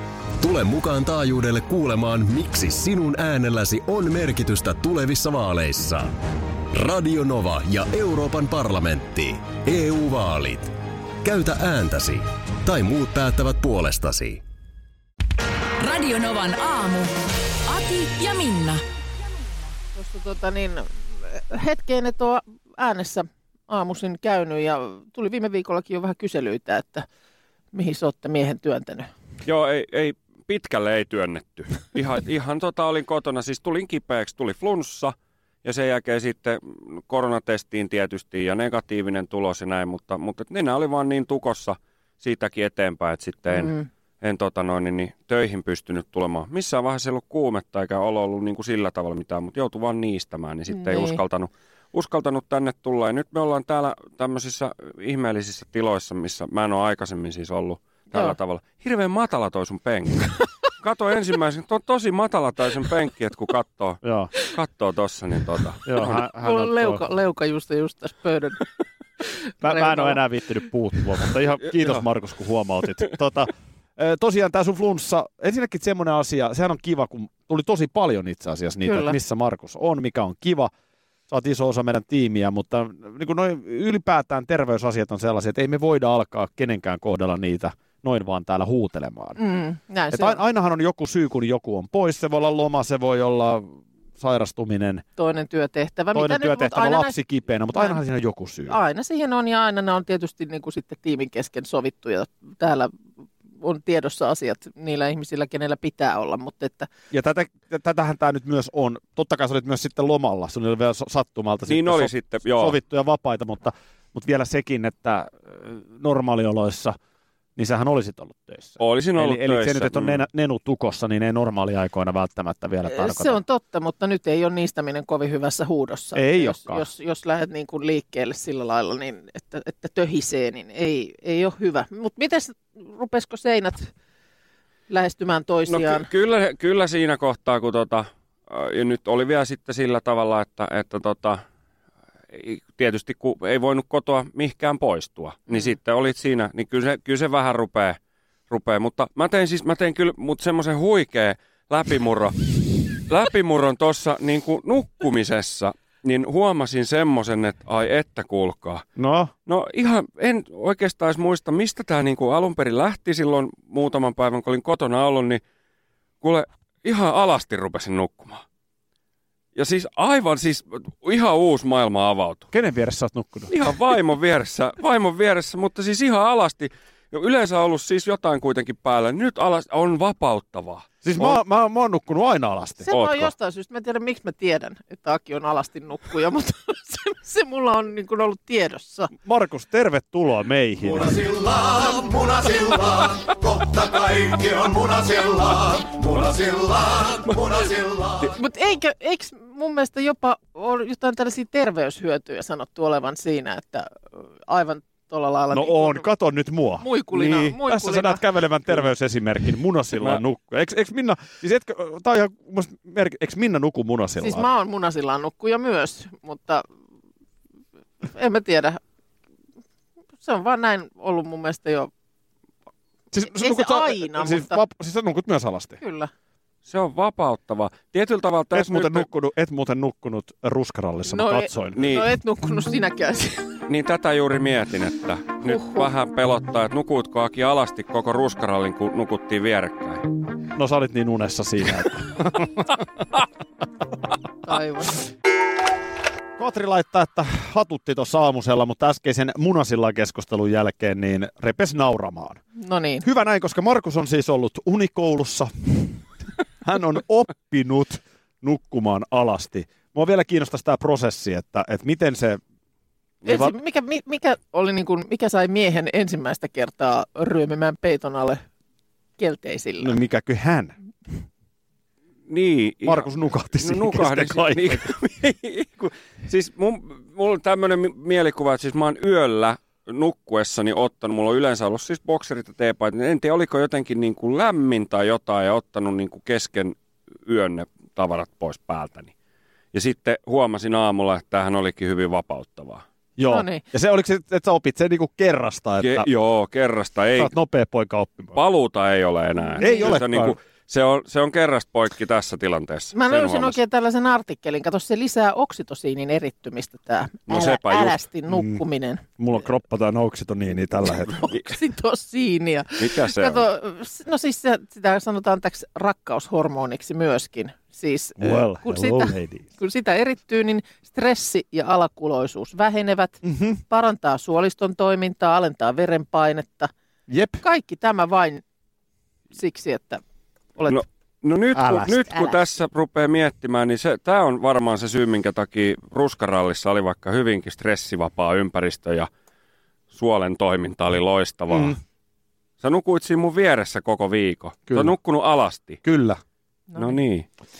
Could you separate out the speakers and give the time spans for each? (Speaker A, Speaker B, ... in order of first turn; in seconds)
Speaker A: 0.4-6.2, 6.7-10.7, 11.2-14.4
Speaker B: 15.8-17.1, 17.7-18.8
Speaker C: 19.9-27.1, 27.7-29.1, 43.5-43.9, 50.7-51.2, 66.3-68.7, 69.6-70.2, 78.8-79.2, 89.4-90.4, 95.2-97.2, 97.7-98.0, 98.7-102.9, 103.6-106.9, 122.9-133.9, 134.9-136.1, 182.8-189.1, 198.2-206.1, 206.8-208.2, 214.2-216.7, 218.1-218.8, 220.2-221.9, 223.3-224.6, 225.8-226.1, 231.1-233.5, 235.5-235.9, 244.4-245.0, 252.6-253.1, 263.2-268.4, 269.2-270.0, 293.2-293.6, 299.4-299.9, 302.9-309.1, 311.3-326.7, 327.4-328.4, 329.3-330.0
Speaker D: 29.4-66.2, 111.7-112.8, 118.8-120.2, 135.7-141.4, 142.3-158.8, 159.5-165.4, 166.2-168.4, 169.6-172.5, 173.5-181.4, 182.9-183.3, 226.7-229.1, 231.8-232.1, 233.7-240.1, 272.3-289.1, 289.7-292.8, 295.8-297.3, 298.4-303.6, 307.3-308.0, 312.8-313.4, 330.7-339.1, 339.9-341.8, 342.6-345.8, 346.8-347.3
Speaker E: 64.0-64.3, 65.9-67.0, 69.6-80.7, 81.3-89.4, 90.1-95.0, 96.1-98.8, 107.1-117.0, 117.6-123.4, 126.1-126.9, 159.0-159.3, 172.5-173.5, 181.0-183.0, 189.1-191.2, 205.5-214.5, 223.1-225.8, 228.5-232.0, 240.6-242.8, 246.4-252.4, 253.0-256.0, 256.6-262.4, 263.2-263.6, 269.8-270.8, 272.9-274.9, 293.2-296.1, 297.2-298.4, 299.6-300.4, 308.3-308.6, 309.2-311.4, 318.2-319.5, 323.2-323.6, 327.1-327.4, 331.5-332.3, 341.5-341.8, 344.7-345.0, 345.8-346.2
Speaker F: 190.8-198.3